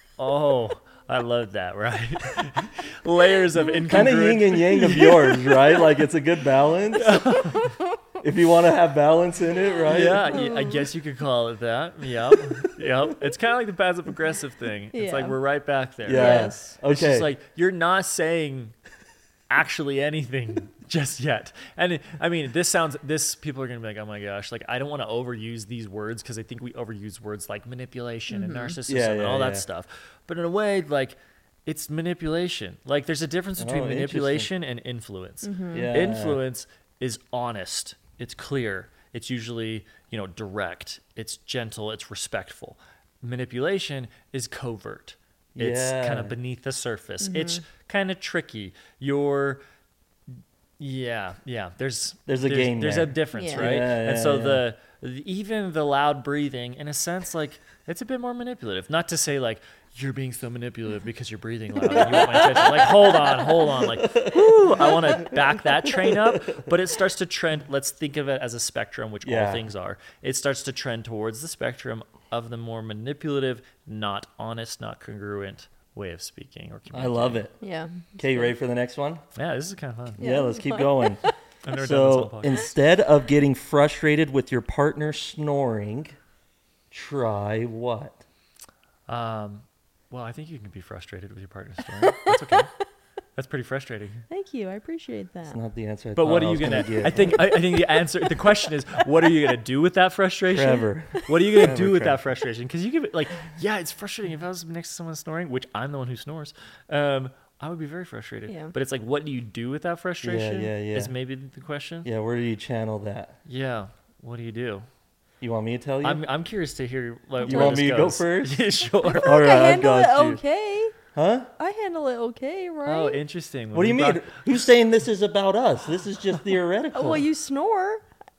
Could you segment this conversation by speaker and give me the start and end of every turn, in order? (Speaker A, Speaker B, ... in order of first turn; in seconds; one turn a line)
Speaker A: 0.2-5.2
Speaker B: 3.8-7.3
Speaker C: 4.8-5.5
Speaker A: 7.0-7.7
Speaker C: 7.3-8.0
Speaker B: 8.2-10.3
Speaker A: 9.9-18.7
Speaker C: 10.3-10.8
Speaker C: 14.9-15.4
Speaker B: 16.1-17.3
Speaker C: 16.1-16.7
Speaker A: 19.5-49.6
Speaker C: 28.3-28.8
Speaker B: 28.9-29.6
Speaker B: 33.6-34.5
Speaker C: 35.4-35.9
Speaker B: 35.7-36.4
Speaker B: 45.6-46.3
Speaker C: 47.2-47.6
Speaker A: 50.8-77.4
Speaker B: 52.3-54.6
Speaker C: 53.3-53.7
Speaker B: 61.8-62.9
Speaker B: 63.7-66.7
Speaker B: 69.2-69.7
Speaker B: 76.9-77.6
Speaker C: 77.6-78.5
Speaker B: 78.2-79.2
Speaker A: 79.4-80.2
Speaker B: 80.2-81.2
Speaker C: 80.2-81.3
Speaker A: 81.6-82.7
Speaker B: 81.7-86.2
Speaker B: 86.9-88.2
Speaker A: 89.1-92.7
Speaker A: 93.4-94.2
Speaker C: 94.3-95.6
Speaker B: 95.5-97.5
Speaker A: 96.2-112.1
Speaker B: 100.5-102.2
Speaker C: 108.5-108.7
Speaker B: 110.2-111.1
Speaker B: 112.0-113.4
Speaker A: 113.5-114.9
Speaker B: 115.4-116.2
Speaker A: 116.0-119.4
Speaker C: 117.4-117.8
Speaker B: 117.4-118.7
Speaker C: 119.0-121.0
Speaker B: 119.2-120.4
Speaker B: 121.2-121.5
Speaker C: 121.6-123.2
Speaker A: 122.8-124.4
Speaker B: 123.7-127.2
Speaker C: 126.9-128.0